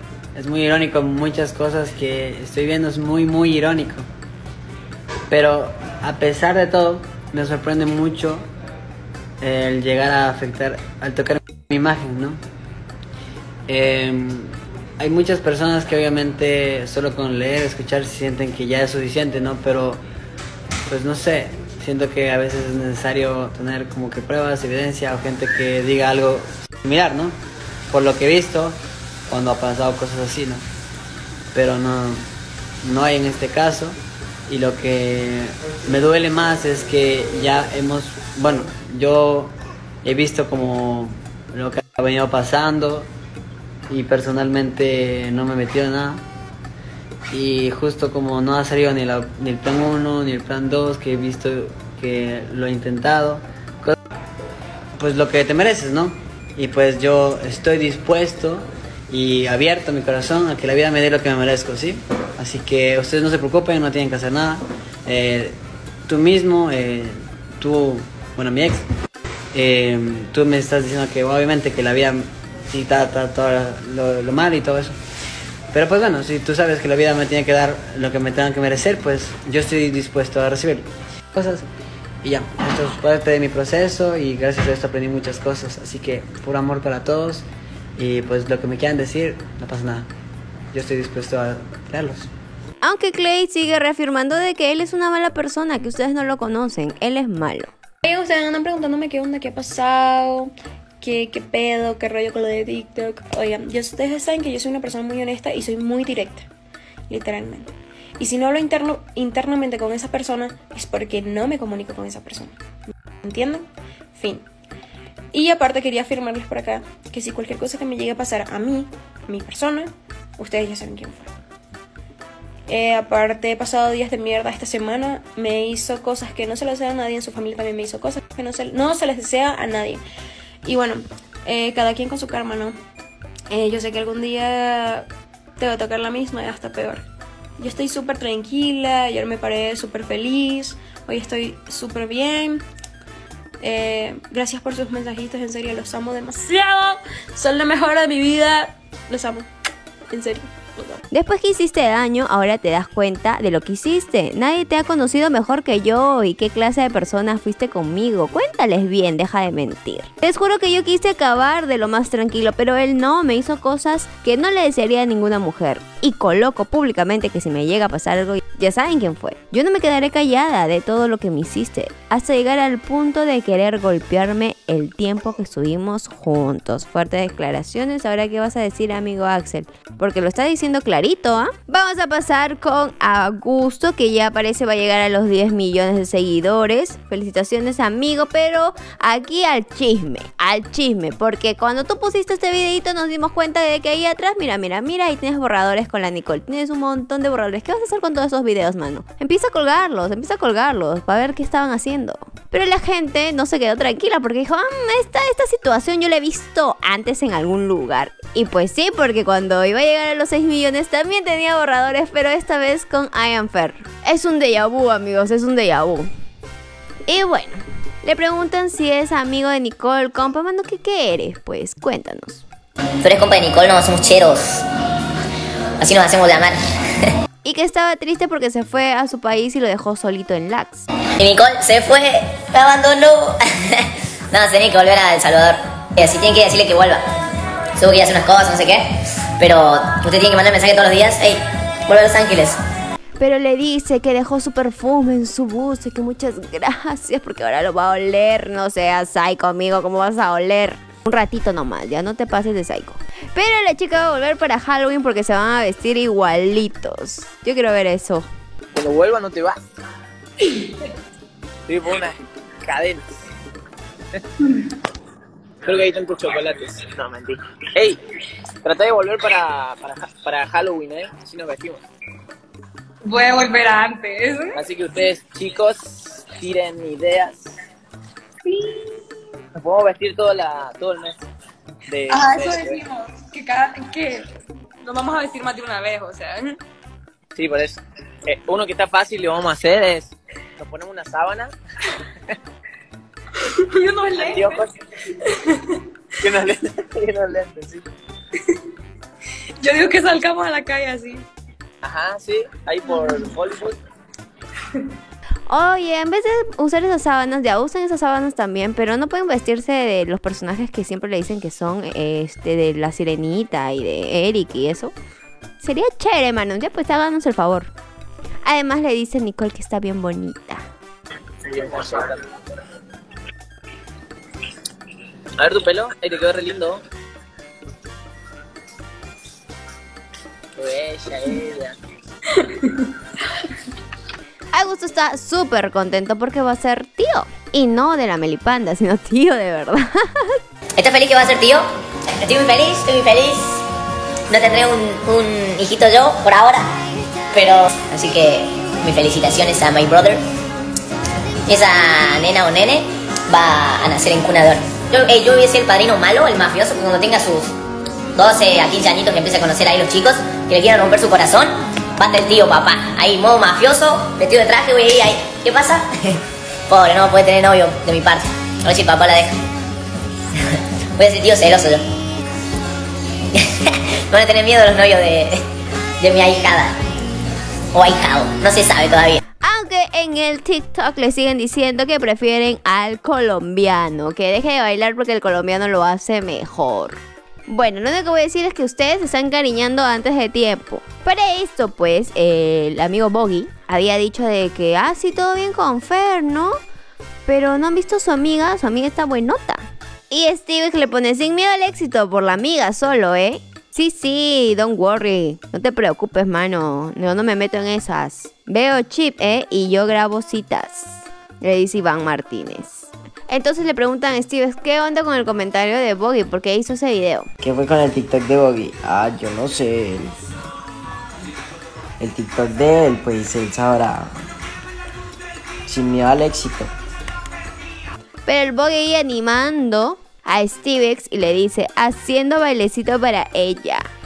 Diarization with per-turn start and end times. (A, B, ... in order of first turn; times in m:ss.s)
0:00.4-0:04.1 A
0:05.3-0:08.5 A
0:09.4-0:12.4 A
0:13.7-0:20.0 A
0:20.9-0:27.4 A
0:27.9-0:30.6 A
0:31.5-0:32.2 A
0:32.8-0:43.1 A
0:43.9-0:46.2 A
0:47.3-0:54.0 A
0:55.0-1:08.9 A
1:09.5-1:15.0 A
1:15.7-1:21.6 A
1:22.2-1:27.4 A
1:28.0-1:30.1 A
1:30.7-1:32.3 A
1:32.8-1:37.7 B
1:38.0-1:46.5 C
1:47.1-1:52.6 C
1:53.2-1:54.5 C
1:55.3-2:01.3 C
2:02.7-2:10.0 C
2:10.6-2:12.8 C
2:13.5-2:17.0 C
2:17.6-2:22.6 C
2:23.6-2:29.5 C
2:30.1-2:31.0 C
2:31.1-3:36.1 B
3:37.1-3:42.4 B
3:43.0-3:44.6 D
3:45.8-3:46.6 D
3:47.4-3:50.9 B
3:51.2-3:53.8 D
3:54.3-3:57.0 D
3:57.8-3:58.9 D
3:59.4-4:02.6 D
4:03.2-4:18.3 B
4:18.7-4:19.6 E
4:21.7-4:23.1 E
4:25.6-4:28.0 E
4:28.6-4:31.8 E
4:33.0-4:34.7 F
4:34.6-4:37.5 E
4:38.5-4:38.7 F
4:39.6-4:41.2 E
4:41.9-4:42.8 E
4:42.1-4:44.2 F
4:44.8-4:46.6 F
4:47.4-4:51.5 E
4:53.7-4:54.7 F
4:54.2-4:54.6 E
4:56.2-4:57.8 E
4:59.6-5:01.2 F
5:01.8-5:03.8 E
5:02.8-5:03.3 F
5:05.5-5:14.9 B
5:15.6-5:17.7 B
5:18.4-5:20.6 B
5:21.5-5:22.2 E
5:25.4-5:26.8 E
5:30.6-5:31.7 E
5:34.5-5:40.4 B
5:40.8-5:41.6 D
5:42.2-5:43.6 D
5:44.3-5:46.7 D
5:47.3-5:50.2 D
5:51.5-5:57.5 D
5:58.2-6:05.8 D
6:06.7-6:09.3 D
6:11.0-6:11.8 D
6:13.4-6:15.4 D
6:16.0-6:16.8 D
6:17.7-6:19.2 D
6:19.4-6:36.6 B
6:37.2-6:57.3 B
6:57.4-7:00.2 G
7:02.0-7:04.2 G
7:05.6-7:06.7 G
7:08.2-7:13.8 B